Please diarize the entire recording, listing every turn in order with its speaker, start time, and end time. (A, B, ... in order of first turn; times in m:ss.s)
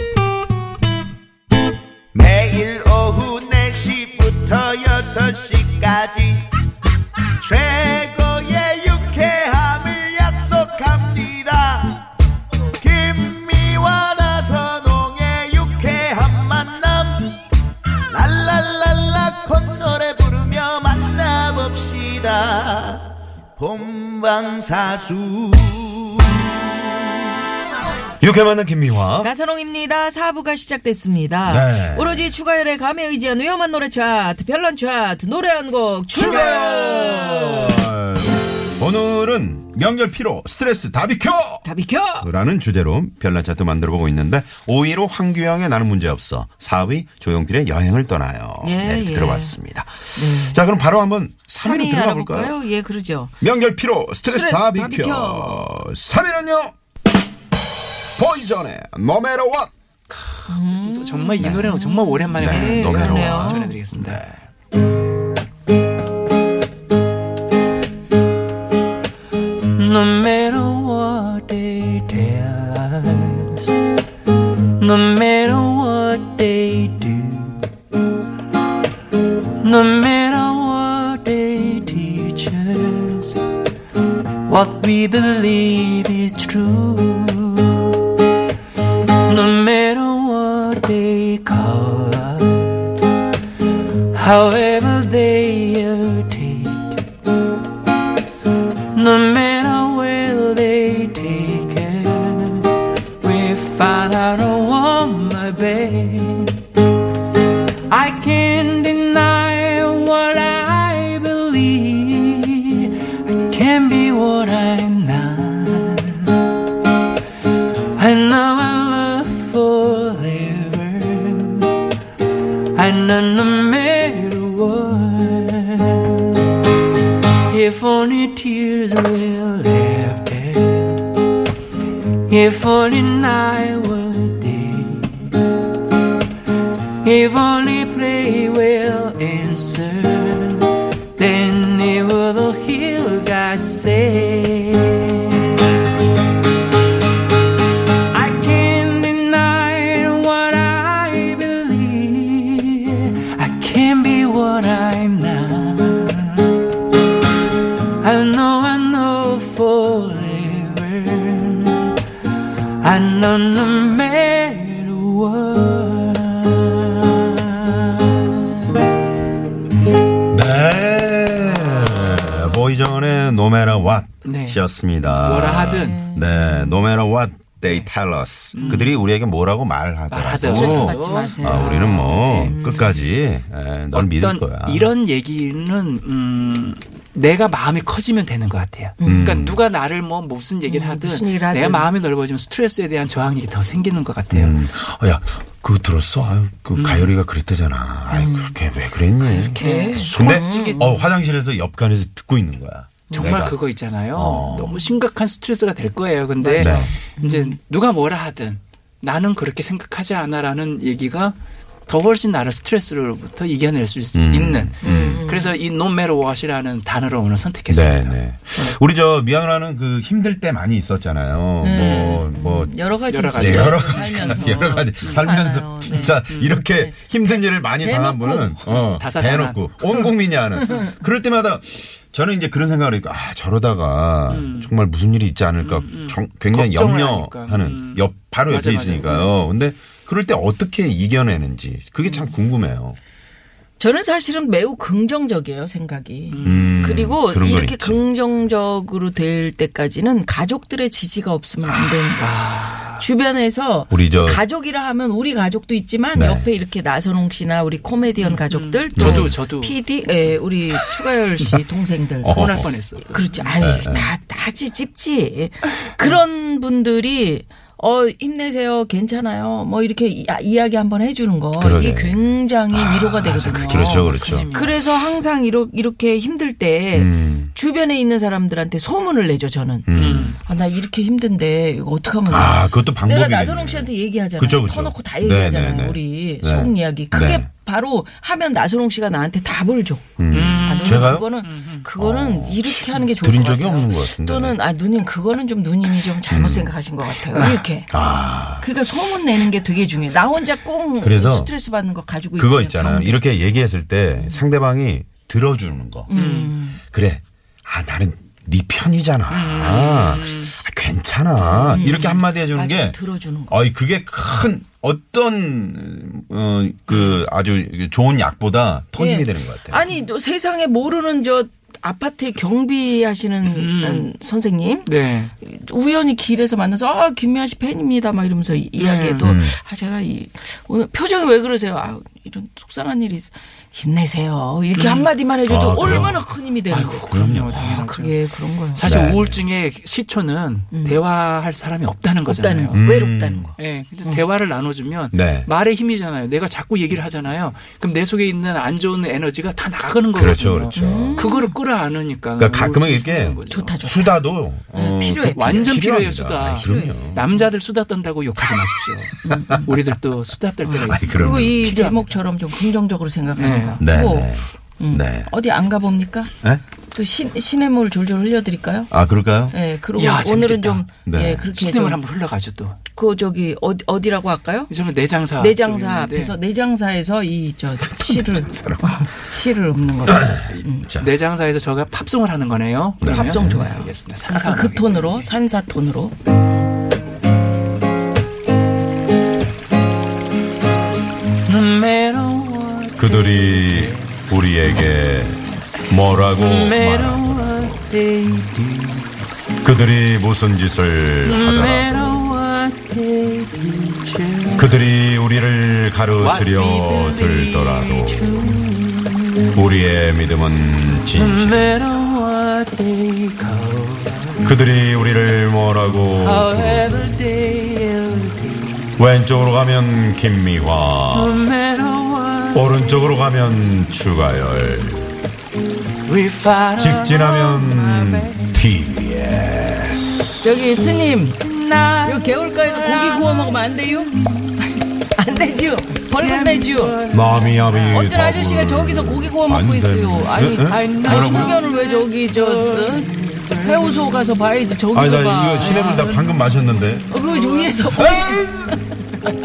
0:02.1-0:06.5 A
0:07.4-0:12.0 A
0:12.8-0:17.4 A
0:18.1-0:26.4 A
0:28.2-0:29.3 B
0:29.2-0:37.8 C
0:31.5-0:32.3 B
0:36.1-0:41.6 B
0:41.6-0:42.3 C
0:42.2-0:52.6 B
0:48.6-0:49.6 C
0:50.2-0:50.6 C
0:51.6-0:53.3 C
0:53.4-0:56.7 B
0:54.2-0:55.7 C
0:58.2-0:59.7 B
1:00.5-1:03.8 C
1:00.6-1:04.2 D
1:02.4-1:04.4 B
1:09.6-1:13.7 D
1:14.8-1:17.7 D
1:19.6-1:23.4 D
1:24.5-1:27.9 D
1:29.1-1:33.1 D
1:34.1-1:37.0 D
1:38.9-1:46.6 D
1:47.9-1:56.4 D
1:57.9-2:01.8 D
2:02.7-2:06.4 D
2:07.5-2:11.2 D
2:12.3-2:15.4 D
2:17.0-2:25.6 D
2:28.1-2:36.6 D
2:38.0-2:42.0 D
2:42.8-2:48.4 D
2:50.3-3:04.9 B
2:51.5-2:52.2 D
2:54.2-2:56.0 D
2:55.8-2:56.8 C
2:58.5-2:59.0 D
3:00.1-3:02.6 D
3:00.3-3:03.0 C
3:03.9-3:14.6 D
3:09.0-3:09.4 C
3:09.0-3:09.6 B
3:10.7-3:11.9 C
3:14.3-3:23.6 B
3:16.8-3:17.1 D
3:18.1-3:18.6 C
3:19.2-3:21.0 C
3:19.6-3:21.1 D
3:23.1-3:31.4 D
3:24.1-3:24.8 B
3:26.4-3:27.6 C
3:26.6-3:27.0 B
3:31.9-3:38.8 D
3:34.2-3:35.2 B
3:34.8-3:35.6 C
3:37.7-3:42.7 B
3:41.6-3:48.6 C
3:43.1-3:45.2 D
3:43.3-4:03.0 B
3:45.8-3:46.6 D
3:48.7-3:49.7 D
3:54.3-3:54.7 D
3:55.6-3:59.3 D
4:03.8-4:12.3 C
4:06.3-4:07.0 D
4:06.4-4:08.0 B
4:11.6-4:12.2 B
4:12.2-4:13.0 D
4:13.0-4:57.9 C
4:13.9-4:14.4 B
4:16.1-4:16.5 B
4:18.2-4:19.8 D
4:19.0-4:19.4 B
4:22.2-4:22.7 B
4:22.3-4:23.6 D
4:23.6-4:24.1 B
4:31.6-4:34.5 B
4:33.2-4:34.9 D
4:36.9-4:37.5 B
4:39.9-4:40.4 B
4:39.9-4:40.4 D
4:42.3-4:47.5 B
4:50.2-4:51.3 B
4:50.3-4:51.9 D
4:52.0-4:54.6 B
4:56.3-4:56.7 B
4:57.3-4:57.7 D
4:57.9-4:58.7 B
4:58.6-5:03.2 C
5:01.0-5:01.5 B
5:02.4-5:06.1 B
5:06.1-5:06.8 C
5:06.1-5:06.6 D
5:06.9-5:19.8 B
5:09.3-5:10.6 D
5:11.4-5:13.6 C
5:16.9-5:17.2 D
5:19.0-5:38.9 C
5:23.5-5:24.1 D
5:24.9-5:25.3 D
5:28.8-5:29.4 D
5:29.2-5:29.6 B
5:34.8-5:35.1 D
5:35.4-5:36.2 B
5:35.7-5:42.8 D
5:37.1-5:37.6 B
5:38.8-5:39.4 B
5:40.7-5:41.0 C
5:42.3-5:44.2 C
5:42.7-5:43.5 B
5:43.6-5:53.8 D
5:45.1-5:45.5 B
5:50.2-5:51.3 B
5:50.7-5:51.6 C
5:52.4-5:57.2 B
5:53.4-5:55.8 C
5:55.3-6:02.0 D
5:56.6-5:57.5 C
5:59.2-5:59.7 C
6:00.7-6:06.3 C
6:00.8-6:01.8 B
6:03.4-6:03.8 D
6:03.8-6:05.3 B
6:06.4-6:06.6 B
6:06.9-6:08.9 C
6:08.9-6:09.6 B
6:09.5-6:12.0 C
6:09.9-6:10.9 D
6:11.0-6:11.5 B
6:11.5-6:12.8 D
6:12.9-6:14.7 C
6:14.7-6:16.4 D
6:15.4-6:20.9 C
6:17.8-6:19.1 B
6:20.1-6:21.1 B
6:20.5-6:25.3 D
6:23.0-6:23.7 B
6:23.0-6:26.2 C
6:31.4-6:34.9 D
6:33.0-6:37.9 B
6:36.2-6:39.2 D
6:39.6-6:42.2 B
6:41.2-6:44.8 D
6:44.6-6:48.4 B
6:46.2-6:49.7 D
6:49.5-6:51.7 B
6:51.1-6:54.6 D
6:54.4-6:57.1 B
6:56.2-6:59.0 D
6:59.0-7:01.4 B
7:01.1-7:03.2 D
7:02.5-7:05.1 B
7:06.1-7:08.6 D
7:06.8-7:10.6 B
7:10.4-7:11.4 C
7:11.4-7:14.8 D
7:12.0-7:14.1 C
7:15.0-7:17.0 C
7:16.1-7:18.1 D
7:17.1-7:21.6 B
7:17.9-7:26.2 C
7:20.6-7:24.3 D
7:24.9-7:27.1 B
7:25.5-7:28.1 D
7:27.1-7:28.6 C
7:27.9-7:28.8 B